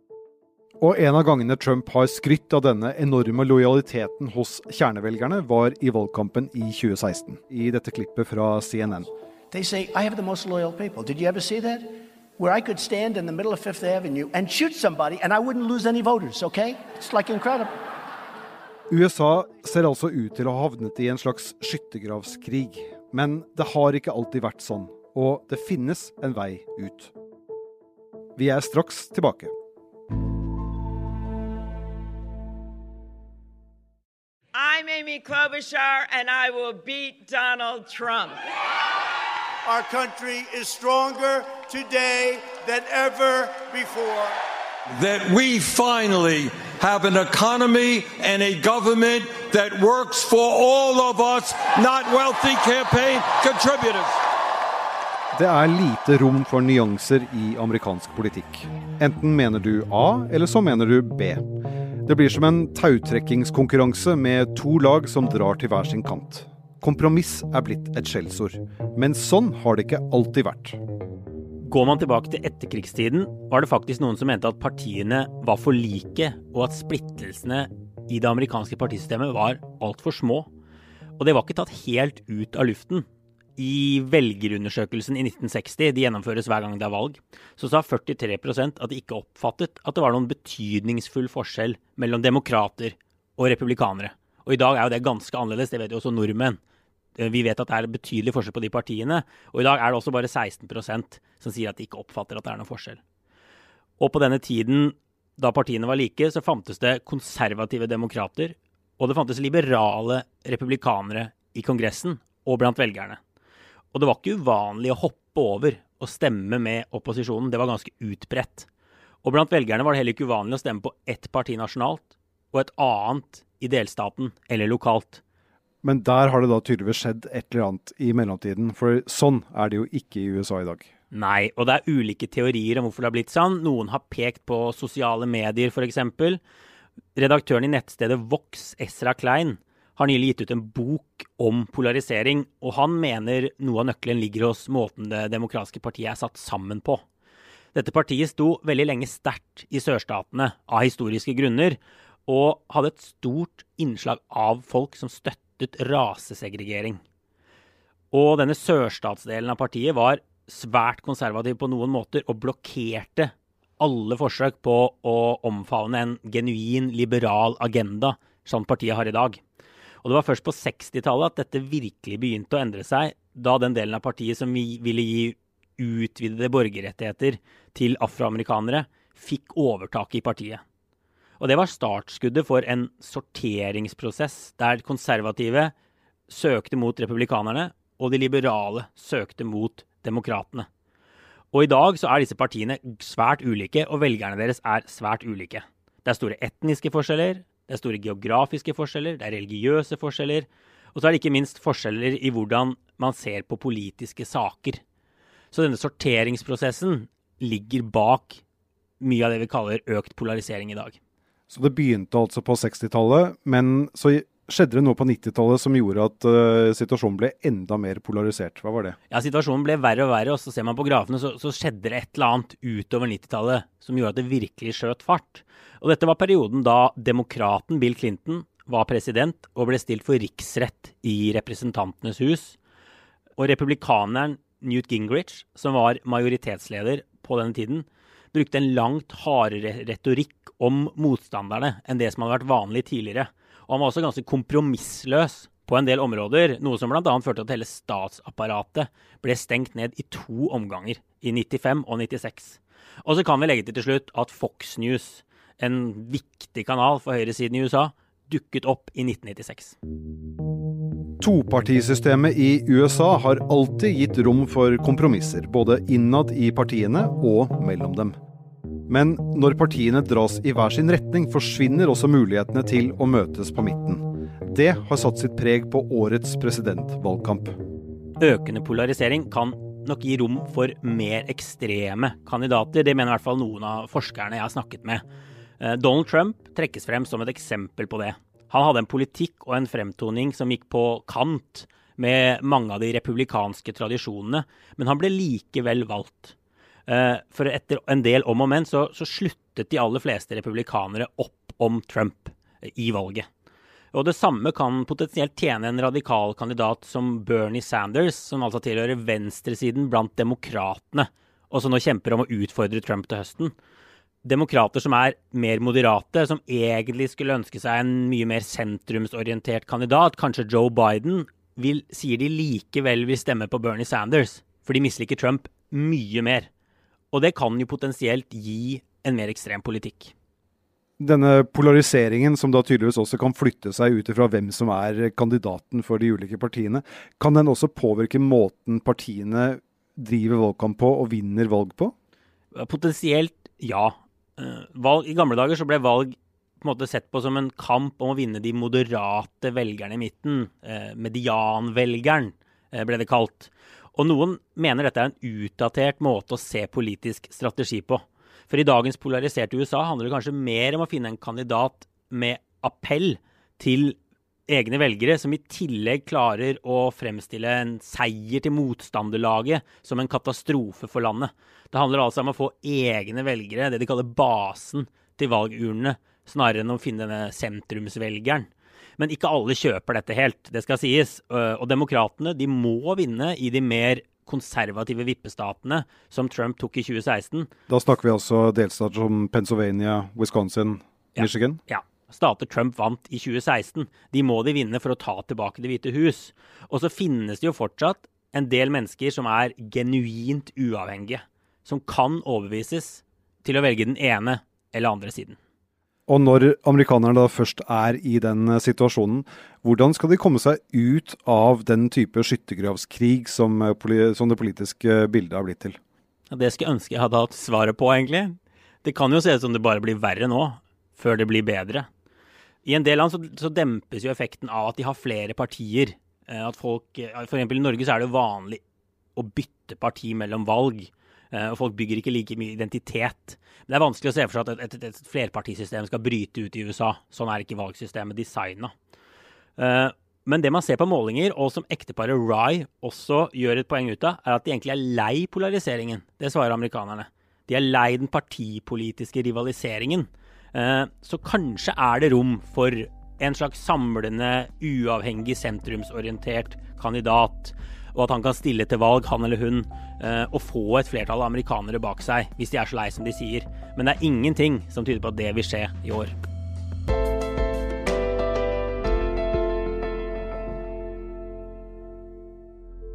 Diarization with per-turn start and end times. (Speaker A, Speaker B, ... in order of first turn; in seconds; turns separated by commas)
Speaker A: 0.8-9.1, Speaker B: 9.5-17.7, Speaker A: 18.9-27.1, Speaker A: 28.4-29.5, Speaker C: 34.5-38.4, Speaker D: 39.6-44.4, Speaker E: 45.0-54.2, Speaker A: 55.4-61.5, Speaker A: 62.0-70.8, Speaker F: 71.6-80.5, Speaker F: 81.2-83.1, Speaker F: 83.6-96.6, Speaker F: 97.2-103.0, Speaker F: 104.0-113.2, Speaker F: 113.9-118.7, Speaker F: 119.2-125.2, Speaker A: 125.8-130.8, Speaker F: 131.1-136.4, Speaker F: 137.2-147.0, Speaker F: 147.7-157.0, Speaker F: 158.1-169.4, Speaker F: 170.0-180.6, Speaker F: 181.4-185.7, Speaker F: 186.3-190.7, Speaker F: 191.5-204.8, Speaker F: 205.5-208.4, Speaker F: 209.0-211.0, Speaker A: 211.5-219.0, Speaker F: 219.1-232.6, Speaker F: 233.4-259.8, Speaker A: 261.2-268.2, Speaker A: 268.9-277.5, Speaker F: 278.2-285.1, Speaker F: 285.6-296.4, Speaker F: 296.9-303.3, Speaker F: 303.9-313.5, Speaker F: 314.2-326.5, Speaker F: 327.1-330.1, Speaker A: 331.0-341.9, Speaker F: 342.5-364.0, Speaker F: 364.5-387.5, Speaker A: 387.7-391.6, Speaker F: 391.2-405.4, Speaker A: 406.1-415.8, Speaker F: 416.3-421.9, Speaker F: 422.6-428.6, Speaker F: 429.2-438.7, Speaker F: 439.6-466.1